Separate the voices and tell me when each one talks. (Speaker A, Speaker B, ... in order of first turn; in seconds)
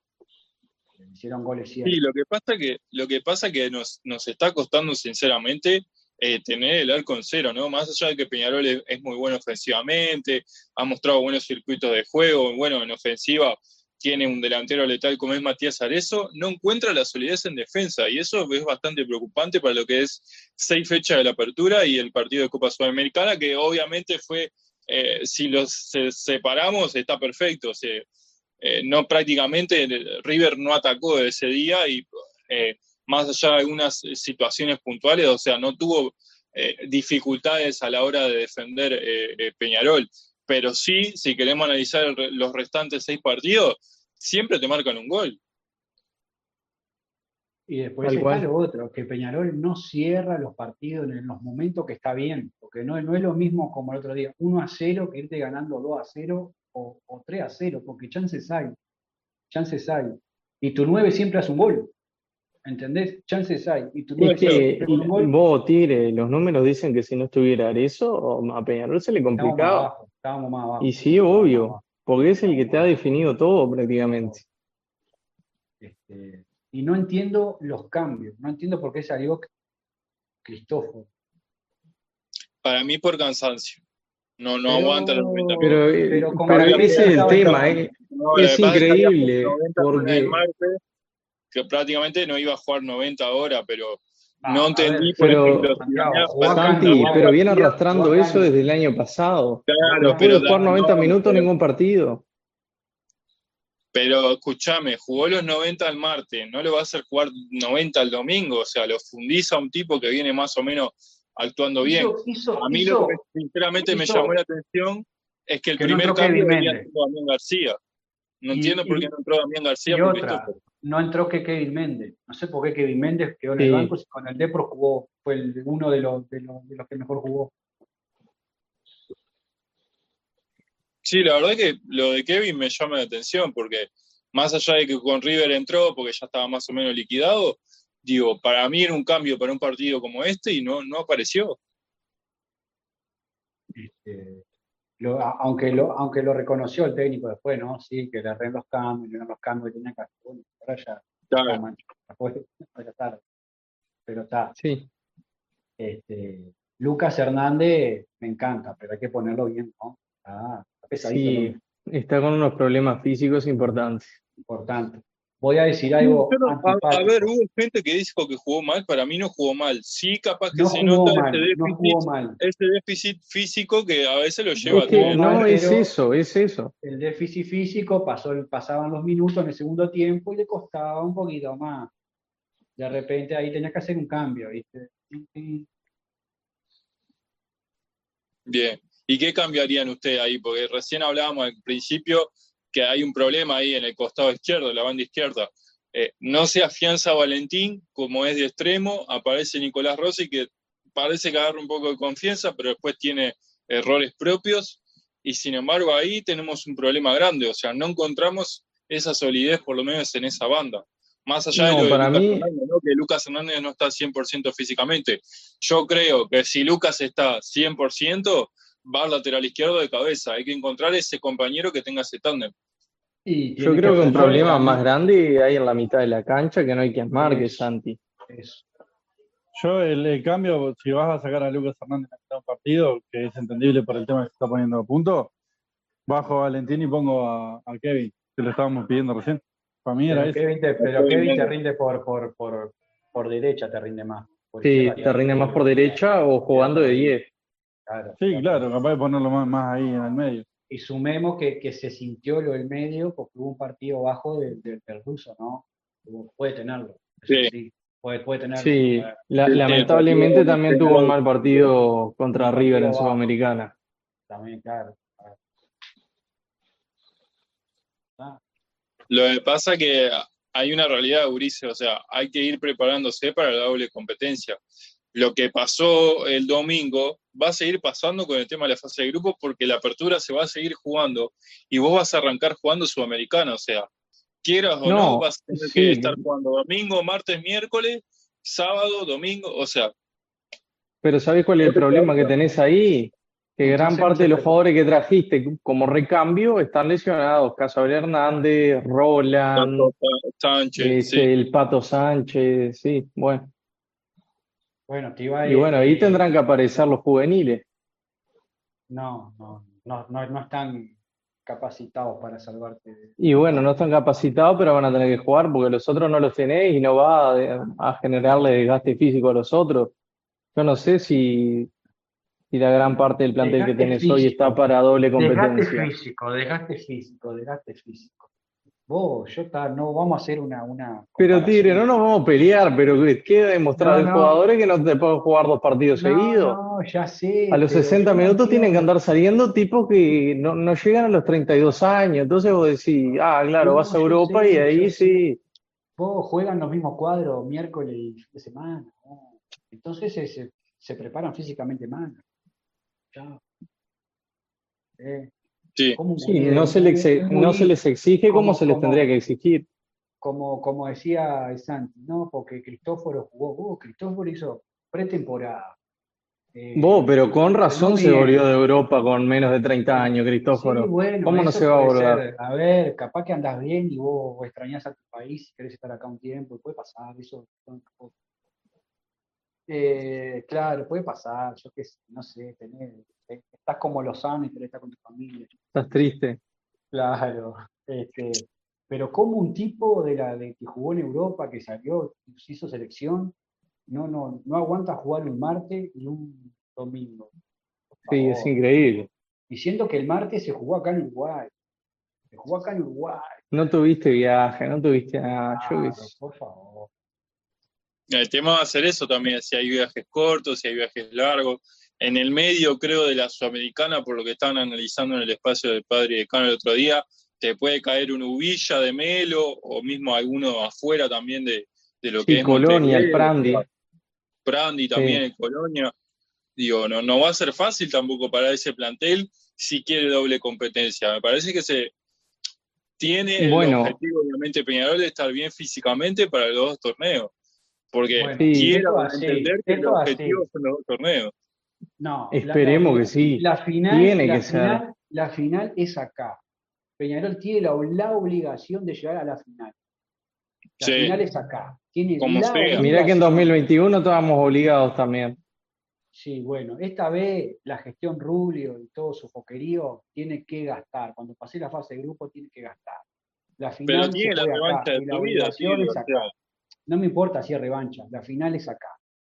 Speaker A: 1.0-2.0, 47.7-58.8, 59.5-61.9, 62.6-65.3, 69.4-71.9, 72.4-73.0, 74.2-74.4, 75.8-79.5, 80.4-81.1, 84.7-87.8, 94.4-98.5, 99.8-101.2, 111.8-113.2, 113.8-114.4, 115.8-116.8, 118.5-119.1, 119.9-127.5, 143.8-144.4, 145.0-153.2, 154.1-154.6, 155.8-161.6, 164.5-167.3, 170.5-172.4, 174.6-175.9, 176.8-181.9, 182.8-185.7, 223.2-224.8, 227.1-227.7, 228.3-228.6, 240.1-247.2, 247.9-248.7, 250.7-261.0, 262.3-263.2, 264.3-265.4, 293.6-294.6, 304.9-306.2, 308.9-313.7, 323.4-324.6, 325.2-328.3, 328.9-331.9, 333.8-334.4, 335.9-338.9, 343.6-345.2, 346.0-352.2, 353.1-353.4, 355.0-355.3, 356.0-357.7, 358.3-359.1, 360.2-365.8, 366.5-368.5, 369.9-378.1, 379.7-385.5, 386.9-393.3, 393.9-397.3, 397.9-398.5, 399.5-401.5, 402.3-403.4, 405.5-406.9, 438.2-440.4, 442.0-446.4, 447.0-449.8, 450.8-453.5, 456.1-463.1, 463.6-466.3, 466.9-469.0
Speaker B: 1.9-28.1, 28.6-45.4, 64.2-64.7, 82.6-83.8, 84.4-85.8, 86.5-90.8, 91.5-97.4, 99.7-101.5, 103.9-117.8, 118.4-120.6, 131.0-141.6, 151.3-151.6, 166.0-175.5, 188.5-222.5, 240.8-241.5, 259.4-261.2, 269.1-274.6, 275.1-283.9, 284.4-289.9, 291.6-292.3, 299.6-301.3, 408.1-423.6, 424.4-425.9, 426.6-431.9, 433.0-437.3, 437.9-441.3, 450.8-451.1, 452.2-452.9, 463.9-466.3
Speaker C: 48.0-48.5, 64.2-69.9, 70.8-74.4, 85.6-90.4, 95.2-95.7, 96.5-102.2, 123.6-123.9, 154.6-154.9, 161.0-164.1, 174.7-176.7, 211.5-212.5, 223.6-228.0, 244.6-247.3, 258.6-263.7, 284.8-286.2, 291.0-299.9, 300.8-303.5, 305.5-307.6, 313.2-319.9, 320.6-321.7, 322.5-325.9, 331.2-336.6, 337.5-345.4, 356.2-359.7, 366.8-372.2, 385.8-386.4, 398.1-399.1, 403.5-406.1, 422.2-423.6, 424.9-425.2, 433.4-434.0, 438.4-438.8, 442.3-444.8, 452.8-455.4
Speaker D: 229.5-235.3, 236.1-240.4, 248.2-250.4